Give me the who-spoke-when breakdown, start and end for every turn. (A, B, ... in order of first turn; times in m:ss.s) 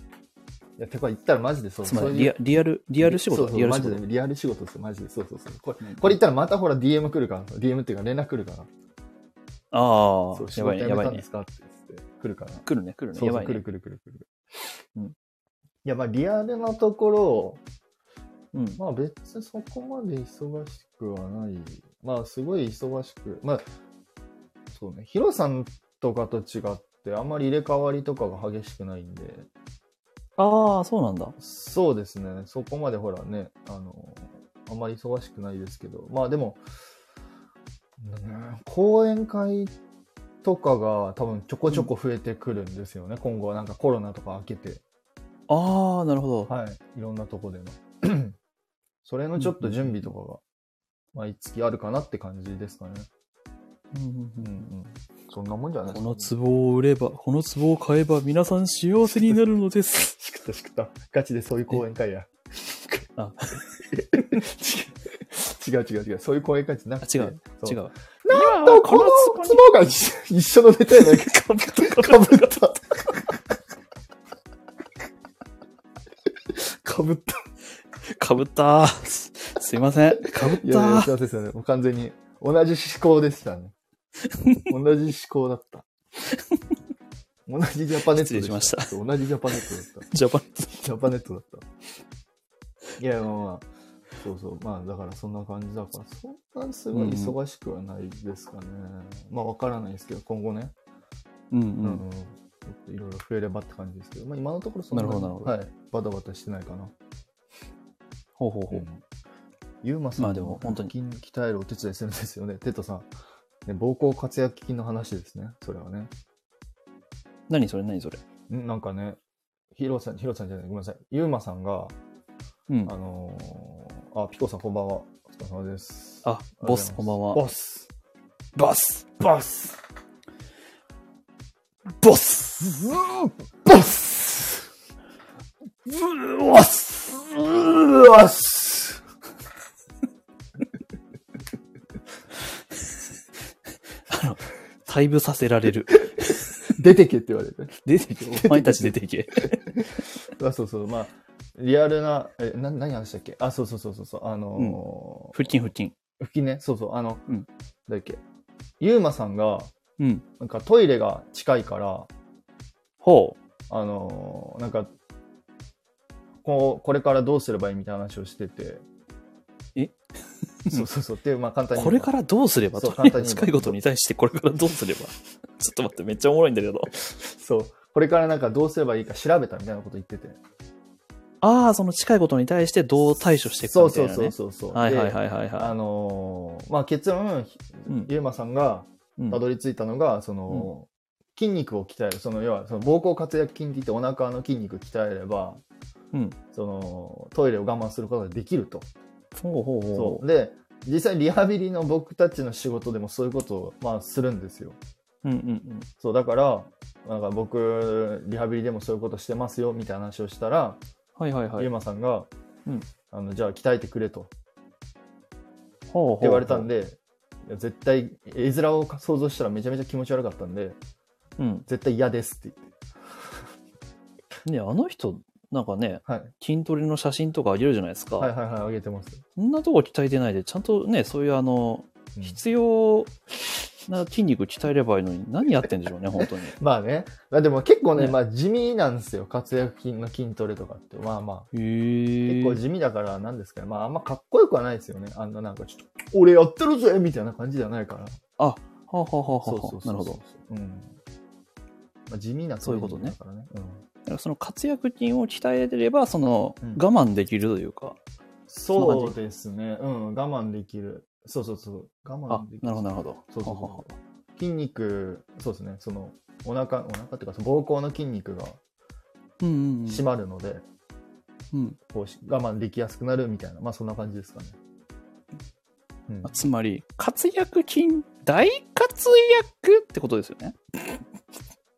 0:00.8-0:02.4 A
0:01.8-0:04.0 B
0:03.0-0:08.7 A
0:05.8-0:06.1 B
0:09.7-0:11.2 B
0:10.3-0:14.3 A
0:12.6-0:13.6 B
0:15.8-0:17.6 A
0:18.5-0:18.8 B
0:18.8-0:23.6 A
0:24.7-0:29.5 A
0:30.4-0:31.3 B
0:31.4-0:36.6 A
0:38.0-0:39.7 A
0:40.4-0:44.8 A
0:45.5-0:46.5 B
0:46.5-0:48.4 A
0:49.0-0:50.4 A
0:49.4-0:50.1 B
0:51.1-0:53.1 A
0:53.9-0:54.6 B
0:54.4-0:56.3 A
0:55.9-1:00.1 B
1:00.1-1:03.0 A
1:03.2-1:03.6 B
1:03.7-1:13.4 A
1:07.0-1:09.8 B
1:11.2-1:12.6 B
1:16.5-1:17.5 A
1:18.0-1:21.1 B
1:20.2-1:23.7 A
1:24.2-1:24.6 B
1:24.6-1:25.9 A
1:26.3-1:26.6 B
1:27.5-1:30.1 A
1:28.1-1:28.9 B
1:29.5-1:30.8 B
1:30.7-1:31.6 A
1:33.0-1:33.7 A
1:34.2-1:40.7 A
1:36.9-1:37.3 B
1:41.5-1:42.0 B
1:41.8-1:46.9 A
1:44.9-1:45.5 B
1:48.4-1:48.9 B
1:48.7-1:49.0 A
1:49.8-1:53.1 A
1:50.2-1:50.9 B
1:53.6-1:56.1 A
1:57.5-1:58.2 B
1:58.5-1:59.2 A
1:59.7-2:01.9 A
2:02.8-2:07.9 A
2:06.2-2:07.4 B
2:08.6-2:09.8 A
2:12.0-2:14.6 A
2:15.8-2:19.0 A
2:24.1-2:26.5 B
2:26.2-2:35.4 A
2:27.8-2:30.0 B
2:35.3-2:35.9 B
2:36.2-2:37.3 A
2:37.9-2:38.2 A
2:38.8-2:39.7 A
2:40.0-2:40.2 B
2:40.4-2:42.1 A
2:43.0-2:43.4 B
2:43.7-2:44.9 A
2:46.4-2:48.8 A
2:50.7-2:52.1 A
2:51.7-2:56.9 B
2:52.7-2:53.8 A
2:57.0-3:00.4 A
3:01.4-3:05.7 B
3:03.6-3:15.6 A
3:16.5-3:18.9 A
3:19.3-3:20.2 B
3:19.9-3:24.8 A
3:25.2-3:25.9 B
3:26.0-3:30.8 A
3:31.2-3:31.7 B
3:31.6-3:32.3 A
3:33.1-3:34.3 A
3:35.9-3:36.7 B
3:36.2-3:40.8 A
3:41.4-3:41.6 B
3:41.7-3:42.7 A
3:44.4-3:48.3 B
3:46.0-3:46.3 A
3:48.2-3:49.2 A
3:49.4-3:53.1 B
3:53.9-3:56.6 B
3:56.2-4:01.5 A
4:01.5-4:02.6 B
4:02.2-4:08.2 A
4:08.4-4:10.2 B
4:09.4-4:10.9 A
4:12.1-4:13.8 A
4:12.6-4:13.1 B
4:14.0-4:18.0 B
4:18.5-4:28.6 A
4:18.7-4:19.2 B
4:22.3-4:23.9 B
4:29.4-4:30.0 B
4:29.8-4:30.6 A
4:31.5-4:31.8 B
4:31.9-4:34.6 A
4:36.1-4:36.3 A
4:36.2-4:40.6 B